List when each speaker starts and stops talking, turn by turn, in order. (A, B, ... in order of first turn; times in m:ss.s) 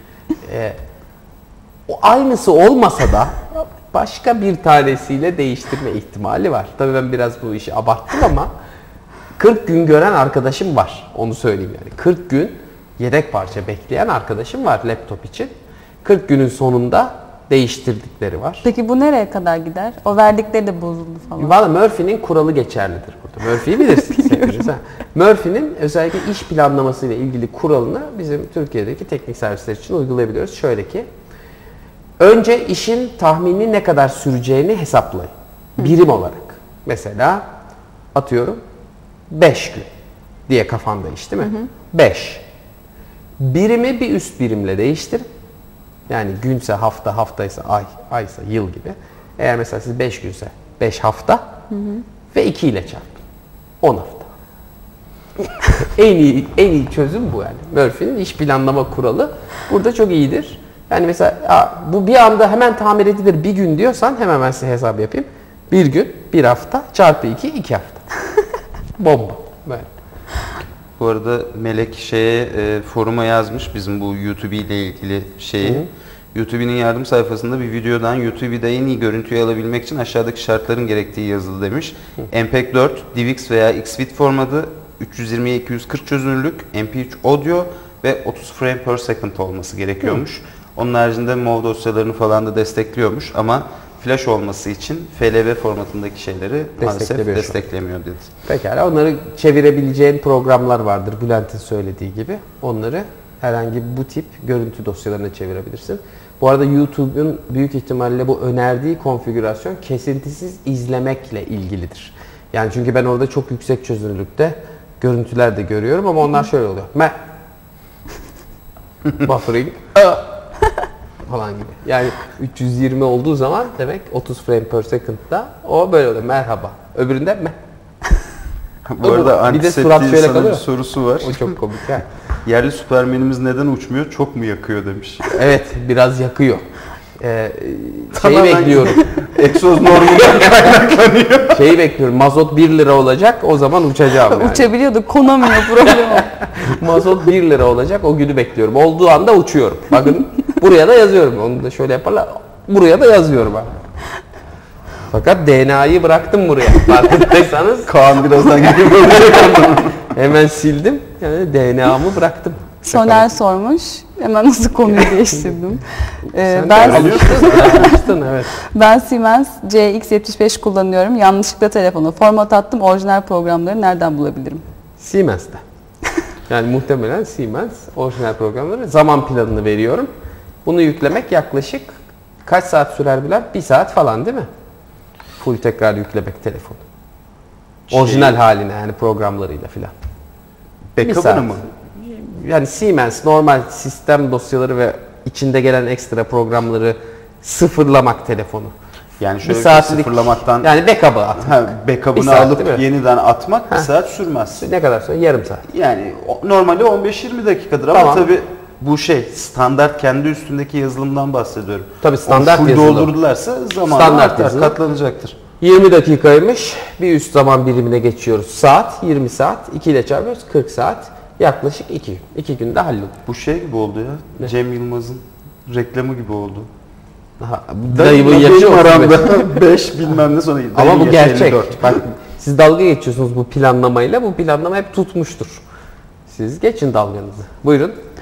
0:00.4-0:00.8 A
0:01.9-0:08.5 A
0:09.4-0:18.6 A
0:18.6-0:21.5 B
0:21.4-0:31.1 A
0:23.8-0:24.7 B
0:32.2-0:37.4 A
0:38.1-0:38.6 A
0:39.3-0:39.9 A
0:40.5-0:42.4 A
0:43.4-0:45.2 A
0:46.1-0:51.4 A
0:51.7-0:52.0 B
0:52.3-0:53.2 A
0:53.8-0:54.3 A
0:55.6-1:08.0 A
1:08.9-1:09.9 A
1:11.0-1:38.3 C
1:15.6-1:15.9 A
1:36.8-1:37.6 A
1:38.4-1:57.1 A
1:59.1-2:00.3 A
2:01.2-2:07.6 A
2:08.8-2:11.6 C
2:09.0-2:10.6 A
2:11.2-2:12.0 A
2:12.4-2:15.3 C
2:15.3-2:16.7 A
2:17.2-2:19.2 A
2:18.1-2:21.7 C
2:21.5-2:24.7 A
2:24.3-2:26.3 B
2:25.6-2:33.7 A
2:35.1-2:37.9 A
2:37.8-2:40.0 C
2:38.5-2:43.4 A
2:42.8-2:48.0 B
2:46.3-2:48.6 A
2:46.7-2:47.9 C
2:48.6-2:54.6 B
2:55.0-2:55.6 A
2:56.5-3:00.1 A
3:00.6-3:04.5 A
3:05.4-3:06.8 A
3:07.9-3:08.4 C
3:07.9-3:09.9 A
3:11.0-3:11.6 C
3:11.0-3:18.7 A
3:19.2-3:20.7 C
3:19.4-3:22.8 A
3:21.4-3:24.6 C
3:24.6-3:25.6 A
3:25.7-3:35.4 C
3:27.9-3:28.3 A
3:32.0-3:33.1 A
3:33.8-3:34.8 A
3:35.6-3:43.2 A
3:43.2-3:46.7 C
3:47.4-3:49.2 A
3:47.9-3:52.0 C
3:50.7-3:55.6 A
3:56.3-3:58.0 A